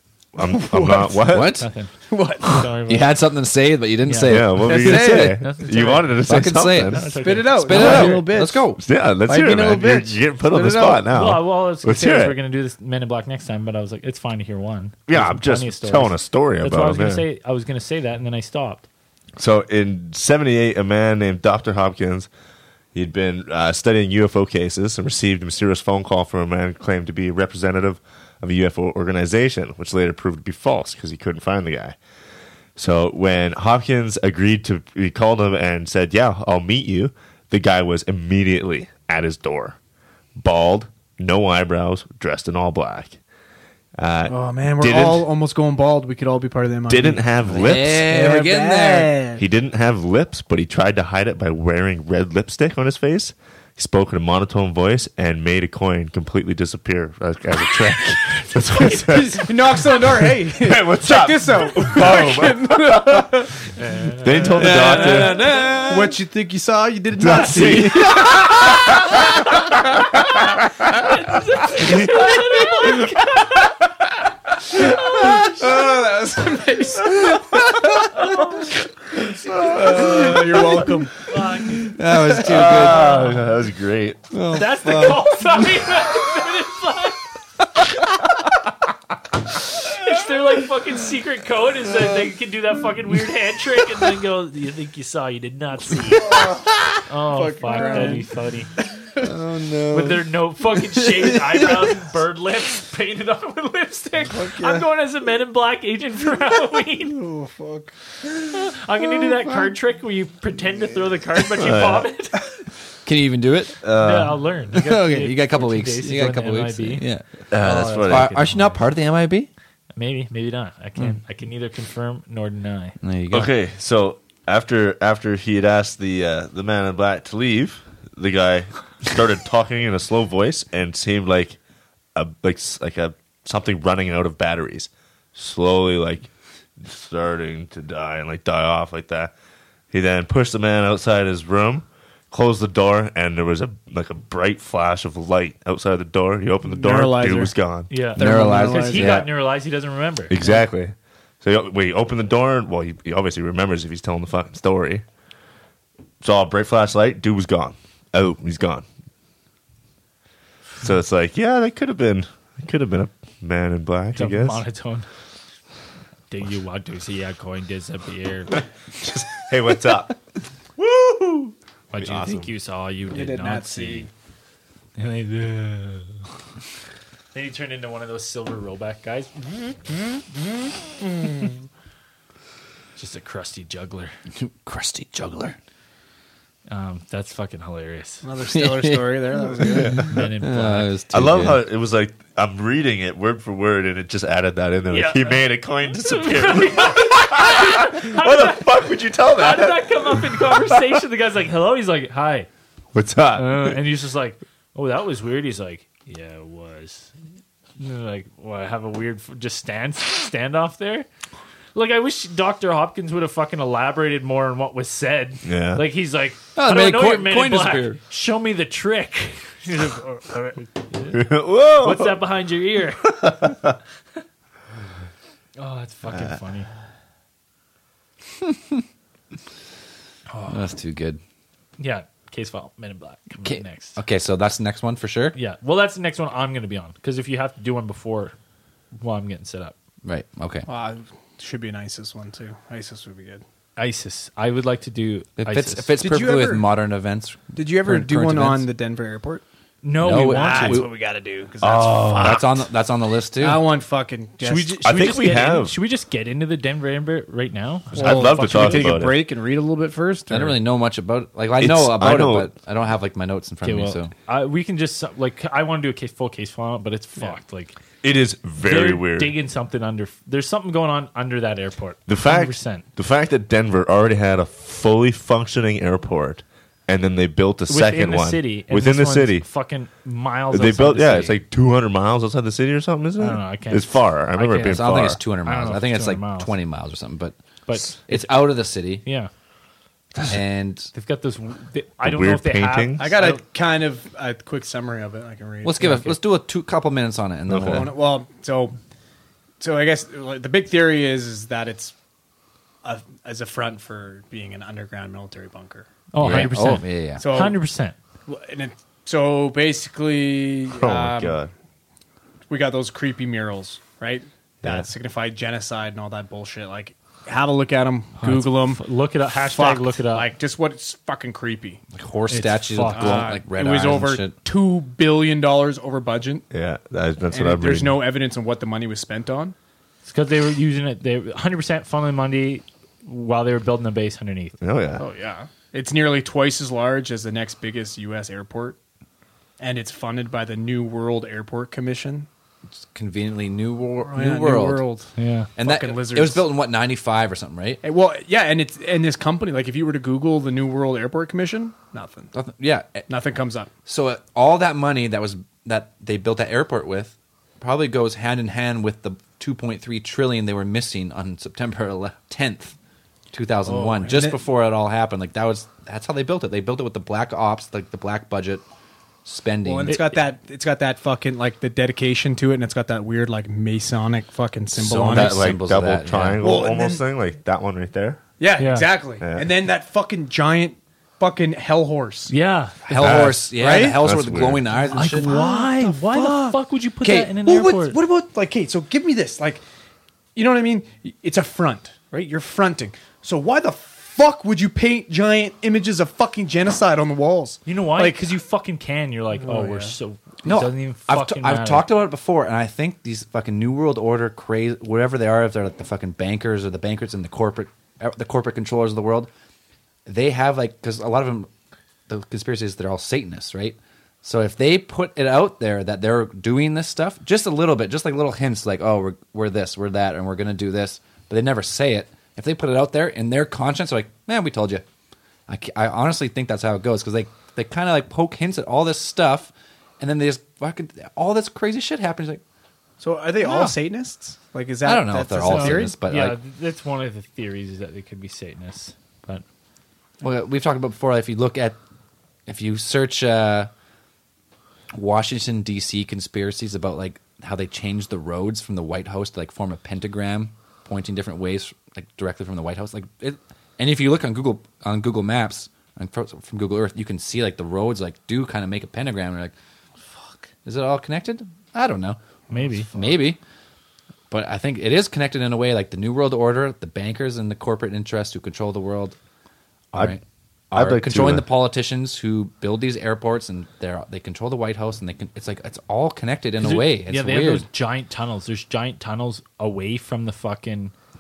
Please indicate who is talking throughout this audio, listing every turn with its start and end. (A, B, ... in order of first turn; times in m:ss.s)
0:00.4-0:01.6 A
0:00.4-0:01.2 B
0:01.3-0:01.7 C
0:01.6-0:03.1 D
0:02.1-0:02.7 B
0:02.9-0:05.4 C
0:04.1-0:06.2 D
0:04.2-0:07.0 A
0:04.7-0:05.4 B
0:06.3-0:08.8 C
0:06.9-0:08.2 D
0:07.0-0:11.0 B
0:07.7-0:08.3 A
0:08.8-0:12.4 A
0:11.1-0:18.9 D
0:15.1-0:17.2 A
0:19.4-0:22.3 A
0:22.9-0:32.0 A
0:32.8-0:39.8 A
0:40.4-0:43.2 A
0:44.0-0:45.3 A
0:44.3-0:49.4 B
0:46.9-0:48.0 A
0:47.5-0:49.1 C
0:49.4-1:03.5 A
0:58.7-1:03.5 B
1:03.8-1:05.7 D
1:04.2-1:05.6 A
1:04.5-1:06.2 C
1:04.6-1:08.9 B
1:07.2-1:10.2 A
1:10.9-1:13.8 D
1:11.9-1:12.4 B
1:14.7-1:15.8 D
1:14.7-1:21.2 B
1:18.1-1:18.7 D
1:19.3-1:20.9 A
1:21.2-1:22.0 D
1:21.8-1:23.2 C
1:22.3-1:24.3 A
1:22.7-1:23.5 D
1:24.3-1:25.2 C
1:24.5-1:27.3 D
1:29.8-1:36.5 D
1:36.3-1:36.6 B
1:37.1-1:38.8 D
1:37.3-1:38.3 B
1:37.9-1:38.2 C
1:39.2-1:40.2 A
1:39.9-1:47.2 D
1:47.1-1:47.9 B
1:48.5-1:52.6 D
1:51.6-1:52.1 A
1:53.0-1:53.8 C
1:53.8-1:54.4 A
1:54.0-1:57.0 D
1:54.7-1:59.5 C
1:57.5-1:58.4 A
1:57.6-1:58.8 D
2:00.0-2:03.0 D
2:03.0-2:03.5 C
2:03.3-2:11.6 A
2:12.2-2:16.3 A
2:16.8-2:19.3 A
2:19.9-2:27.9 A
2:26.7-2:27.5 B
2:27.9-2:30.3 D
2:28.2-2:29.2 B
2:28.2-2:29.3 C
2:30.3-2:35.0 A
2:36.2-2:38.8 A
2:40.8-2:44.6 A
2:44.2-2:45.1 D
2:46.3-2:48.6 D
2:49.0-2:50.2 A
2:50.8-2:51.0 A
2:51.9-2:54.1 D
2:52.0-2:52.5 A
2:53.1-2:54.1 B
2:55.0-2:56.2 D
2:57.3-2:59.8 D
3:03.0-3:04.1 D
3:04.4-3:05.6 C
3:06.7-3:08.3 D
3:08.2-3:10.1 B
3:08.5-3:11.6 C
3:09.7-3:10.1 A
3:10.1-3:10.9 D
3:11.1-3:20.8 A
3:14.9-3:15.4 D
3:16.0-3:18.7 D
3:19.3-3:22.5 D
3:22.9-3:23.8 A
3:23.4-3:27.1 D
3:27.8-3:31.1 D
3:31.8-3:40.0 D
3:35.4-3:35.8 A
3:36.6-3:38.0 C
3:39.8-3:40.5 B
3:40.9-3:41.2 D
3:41.1-3:42.2 A
3:41.8-3:43.2 D
3:43.0-3:43.7 A
3:45.6-3:46.7 D
3:48.4-3:48.8 C
3:50.5-3:51.2 C
3:51.8-3:54.0 D
3:53.4-3:55.4 C
3:55.3-3:58.4 D
3:58.9-3:59.8 D
4:00.0-4:00.7 C
4:00.7-4:03.4 B
4:03.8-4:05.9 D
4:05.4-4:08.7 C
4:06.0-4:06.7 B
4:07.5-4:09.4 B
4:09.8-4:10.9 D
4:10.0-4:10.9 C
4:10.2-4:12.4 B
4:11.6-4:12.6 A
4:12.2-4:13.6 C
4:13.4-4:14.8 B
4:14.4-4:19.0 D
4:14.8-4:15.8 A
4:17.9-4:20.6 B
4:17.9-4:19.3 A
4:20.3-4:24.1 C
4:21.6-4:22.5 A
4:23.6-4:27.8 D
4:28.0-4:29.3 A
4:28.6-4:32.8 D
4:32.1-4:39.5 A
4:37.7-4:41.4 D
4:40.5-4:45.2 A
4:43.2-4:46.5 D
4:44.6-4:49.0 C
4:47.7-4:49.3 D
4:50.3-4:50.9 C
4:50.9-4:53.4 D
4:52.0-4:53.1 A
4:53.0-4:56.1 B
4:55.6-4:58.0 C
4:57.5-4:57.9 A
4:57.6-4:58.8 B
4:59.6-5:01.9 B
5:02.8-5:05.9 B
5:06.1-5:08.0 D
5:06.2-5:07.2 C
5:07.2-5:07.6 B
5:08.3-5:11.4 B
5:10.8-5:11.5 A
5:12.5-5:18.8 B
5:18.2-5:20.3 D
5:19.4-5:21.8 B
5:21.9-5:24.4 C
5:22.3-5:23.3 D
5:22.9-5:26.5 B
5:26.5-5:28.0 A
5:27.3-5:29.6 B
5:30.0-5:34.6 D
5:34.6-5:35.0 A
5:35.0-5:38.8 B
5:39.6-5:42.3 B
5:42.8-5:44.8 C
5:44.0-5:46.5 B
5:45.2-5:45.5 D
5:45.6-5:47.8 C
5:47.8-5:52.3 B
5:52.3-5:53.1 C
5:53.1-5:53.7 B
5:53.9-6:02.8 C
6:03.3-6:08.6 C
6:03.6-6:04.4 B
6:09.2-6:10.0 C
6:09.6-6:15.4 B
6:09.9-6:10.2 D
6:14.8-6:16.4 C
6:15.1-6:18.2 A
6:16.4-6:17.0 B
6:18.4-6:22.3 B
6:18.6-6:18.9 D
6:19.2-6:19.5 A
6:22.3-6:22.9 D
6:22.9-6:25.3 C
6:22.9-6:24.0 B
6:23.0-6:23.4 A
6:24.0-6:24.6 A
6:24.8-6:29.6 B
6:24.9-6:28.0 D
6:30.4-6:38.3 B
6:37.7-6:41.9 D
6:39.4-6:40.0 B
6:40.4-6:49.3 C
6:50.1-6:51.5 C
6:52.1-7:04.8 C
7:05.5-7:12.4 C
7:13.0-7:15.9 B
7:13.4-7:13.8 C
7:14.8-7:16.4 C
7:15.4-7:19.4 D
7:20.2-7:21.8 C
7:22.5-7:23.7 C
7:24.9-7:39.6 C
7:40.6-7:43.4 C
7:42.5-7:42.9 D
7:44.3-7:49.2 C
7:49.9-7:57.7 C
7:50.7-7:51.5 A
7:56.6-8:00.9 D